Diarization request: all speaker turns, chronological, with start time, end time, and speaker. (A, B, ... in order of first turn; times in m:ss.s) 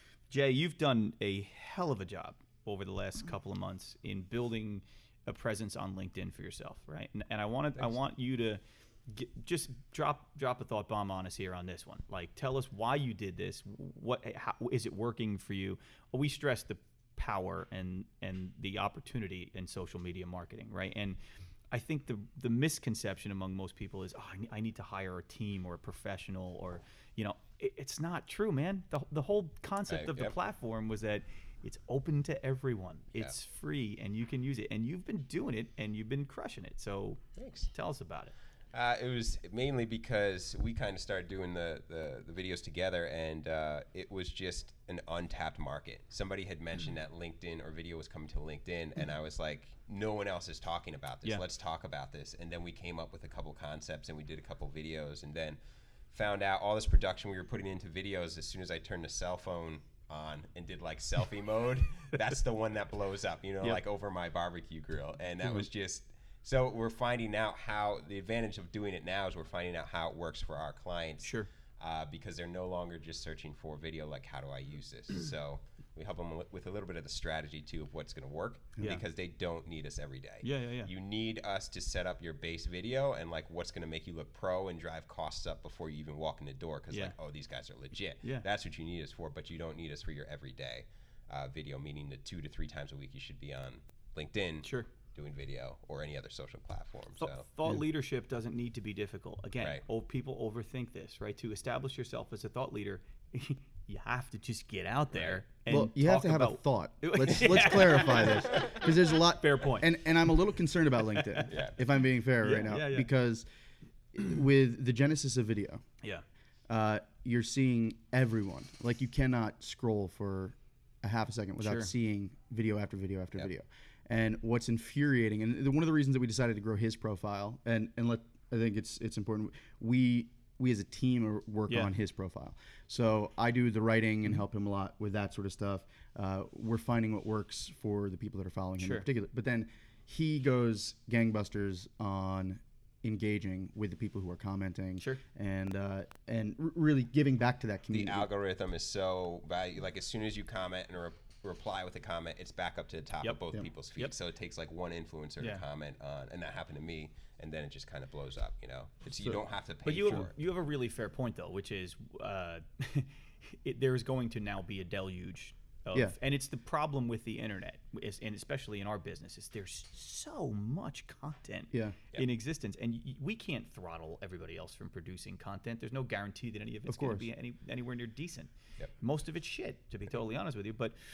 0:00.3-0:21.2 A
0:21.7-0:37.2 A
0:29.9-0:30.3 B
0:37.4-0:37.7 B
0:37.7-0:38.3 A
0:38.7-0:55.6 B
0:56.1-1:37.5 B
1:11.2-1:11.5 A
1:20.4-1:20.9 A
1:34.6-1:34.9 A
1:37.2-1:50.0 A
1:45.1-1:45.4 B
1:45.7-1:53.4 C
1:51.2-1:51.5 A
1:51.5-1:51.8 B
1:52.4-1:53.1 A
1:54.1-1:55.8 C
1:56.7-2:28.3 C
2:01.6-2:01.9 A
2:11.7-2:11.9 A
2:18.8-2:19.1 A
2:27.9-2:40.3 B
2:39.8-3:01.0 A
2:51.7-2:52.0 C
2:56.9-2:57.3 C